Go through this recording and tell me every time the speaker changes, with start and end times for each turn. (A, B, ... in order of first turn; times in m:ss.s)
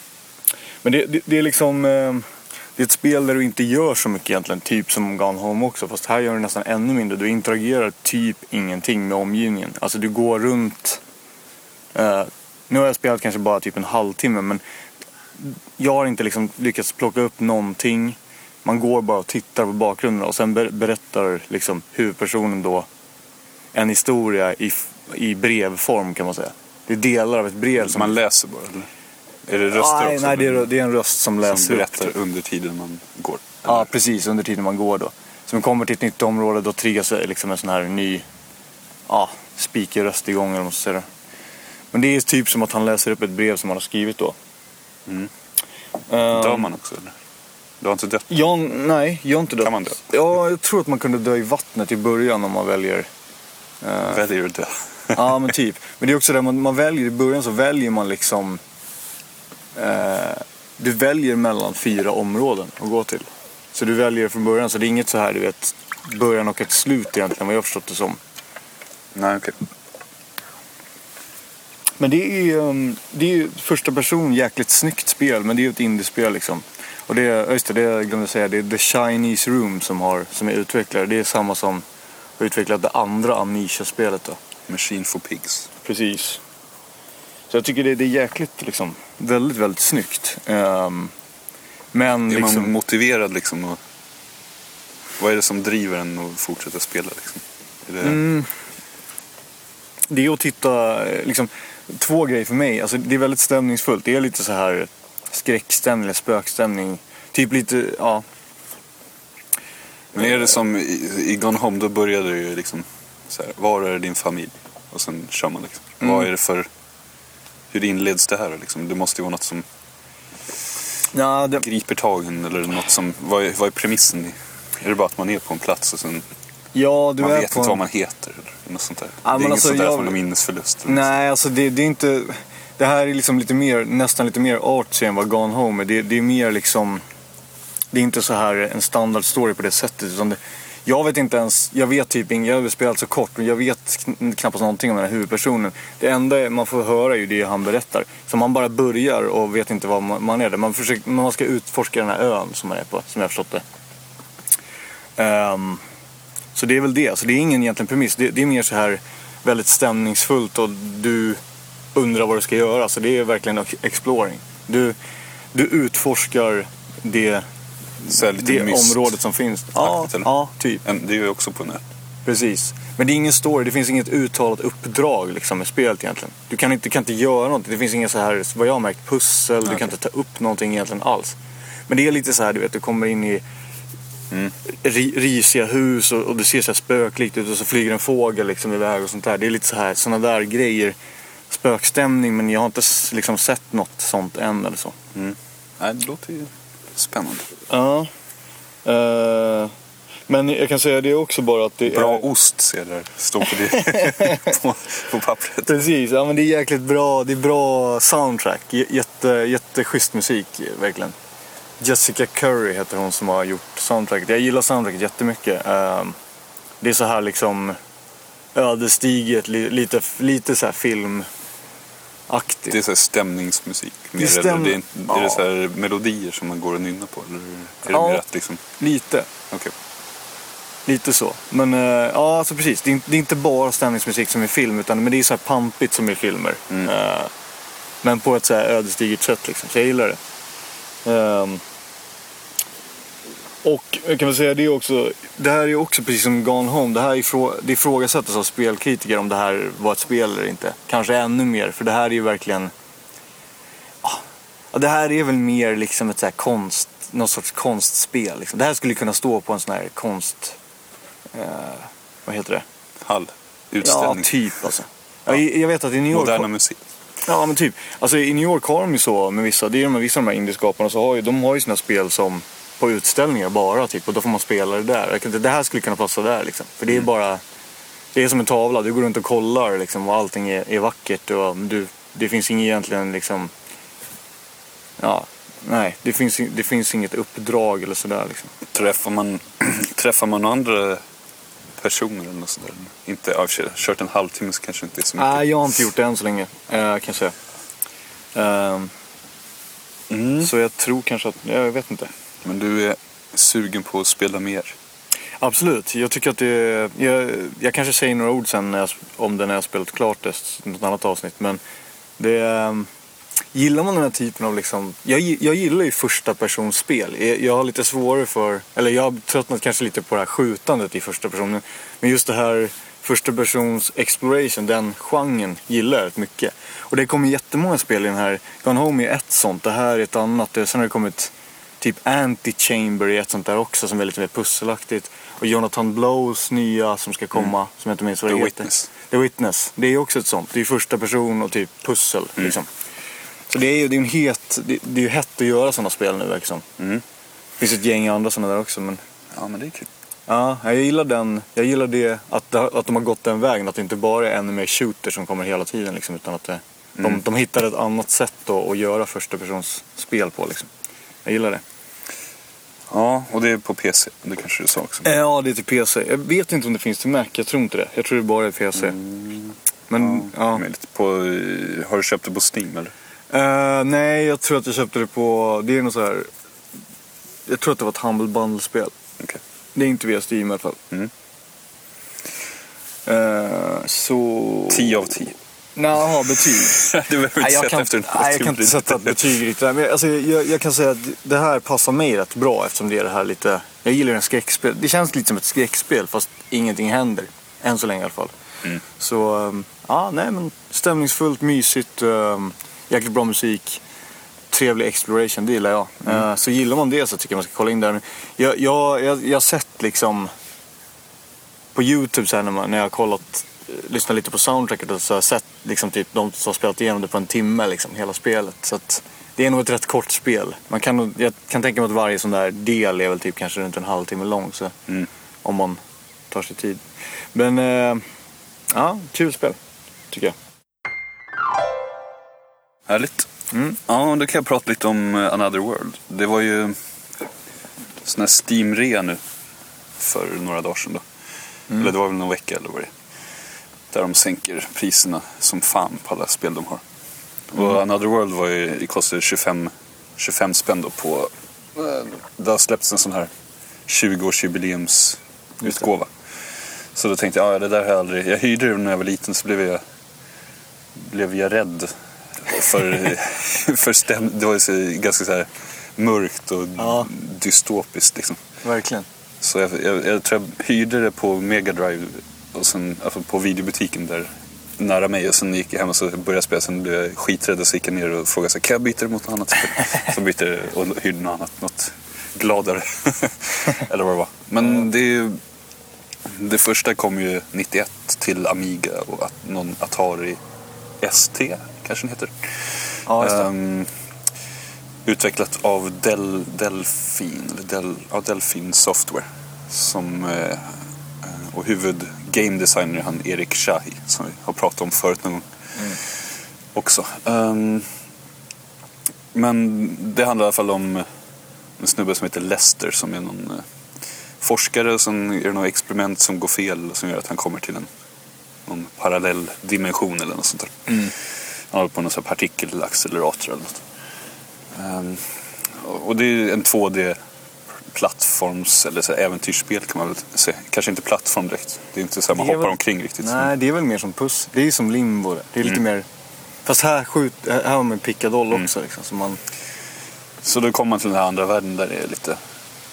0:00.8-0:11.0 A
0:11.9-0:14.6 A
0:15.4-0:22.9 A
0:23.7-0:28.1 A
0:27.8-0:28.9 B
0:29.5-0:30.7 B
0:29.7-0:32.1 A
0:31.4-0:33.9 B
0:33.6-0:38.2 A
0:39.1-0:41.1 A
0:41.9-0:44.4 A
0:46.1-0:46.7 A
0:46.3-0:47.1 B
0:47.8-0:48.3 B
0:48.3-0:53.1 A
0:49.6-0:50.0 B
0:53.8-0:54.2 A
0:54.1-0:55.2 B
0:55.1-0:58.6 A
0:59.8-1:08.2 A
1:09.1-1:09.6 B
1:12.0-1:21.8 A
1:22.4-1:24.4 A
1:24.7-1:25.7 B
1:25.8-1:26.4 A
1:27.5-1:31.1 A
1:31.9-1:32.7 A
1:32.3-1:33.8 B
1:35.2-1:38.2 B
1:38.0-1:38.5 A
1:40.1-1:48.2 A
1:50.1-1:56.7 B
1:57.7-1:59.7 B
2:01.1-2:01.6 A
2:01.6-2:06.2 B
2:06.7-2:07.8 A
2:07.2-2:11.1 B
2:09.2-2:10.2 A
2:10.9-2:17.0 A
2:17.9-2:33.6 A
2:35.2-2:35.8 A
2:36.6-2:41.4 A
2:41.9-2:45.0 A
2:45.5-2:47.4 A
2:48.0-2:50.8 A
2:48.1-2:49.2 B
2:49.8-2:50.3 B
2:50.8-2:51.8 B
2:52.3-3:01.4 A
3:01.9-3:03.4 A
3:04.7-3:11.0 A
3:11.5-3:15.0 A
3:15.1-3:17.5 B
3:17.7-3:18.1 A
3:18.8-3:19.7 A
3:20.3-3:22.3 A
3:21.9-3:25.8 B
3:23.7-3:24.6 A
3:25.6-3:31.2 A
3:31.8-3:36.2 A
3:36.8-3:37.8 A
3:38.6-3:41.3 A
3:42.3-3:42.8 A
3:42.7-3:48.6 B
3:44.2-3:45.4 A
3:47.9-3:48.2 A
3:48.8-3:49.3 A
3:50.9-3:57.3 A
3:58.0-4:00.2 A
4:01.0-4:01.6 A
4:03.6-4:12.7 A
4:14.0-4:20.6 A
4:21.3-4:22.6 A
4:23.0-4:24.3 B
4:23.8-4:26.5 A
4:26.1-4:26.8 B
4:27.2-4:37.4 A
4:38.2-4:43.5 A
4:45.0-4:48.5 A
4:48.7-4:51.0 B
4:51.8-4:55.4 B
4:55.2-4:57.3 A
4:58.4-4:58.9 A
5:00.1-5:00.5 B
5:00.4-5:02.1 A
5:02.4-5:04.8 B
5:05.4-5:11.6 A
5:12.2-5:12.9 A
5:13.5-5:42.7 A
5:38.3-5:38.9 B
5:43.5-5:46.6 A
5:47.6-5:49.0 A
5:49.3-5:49.9 B
5:50.3-6:00.7 A
6:01.2-6:01.6 A
6:02.9-6:05.1 B
6:05.0-6:09.0 A
6:08.8-6:12.9 B
6:09.9-6:10.6 A
6:13.3-6:16.3 A
6:17.5-6:18.9 A
6:19.8-6:20.8 A
6:23.1-6:25.0 A
6:24.7-6:25.4 B
6:25.8-6:38.3 A
6:26.7-6:29.2 B
6:38.9-6:43.8 A
6:44.5-6:50.3 A
6:51.7-7:04.7 A
7:05.4-7:05.8 A
7:06.3-7:08.0 A
7:08.7-7:09.6 A
7:12.9-7:13.3 B
7:13.5-7:13.8 A
7:13.9-7:16.8 B
7:18.0-7:19.2 B
7:20.0-7:21.0 B
7:21.7-7:22.9 B
7:23.9-7:26.8 B
7:27.5-7:33.3 B
7:33.9-7:36.1 B
7:37.0-7:39.8 B
7:41.0-7:48.4 B
7:46.8-7:47.1 A
7:48.6-7:49.1 A
7:49.4-8:05.4 B
8:06.3-8:10.4 B
8:11.0-8:13.9 B
8:13.1-8:13.5 A
8:15.0-8:28.0 B
8:29.3-8:31.1 B
8:31.8-8:33.7 B
8:34.4-8:37.9 B
8:38.7-8:41.2 B
8:41.7-8:43.8 B
8:44.7-8:47.2 B
8:47.9-8:53.5 B
8:52.3-8:56.1 A
8:56.7-8:59.4 A
9:00.4-9:02.4 B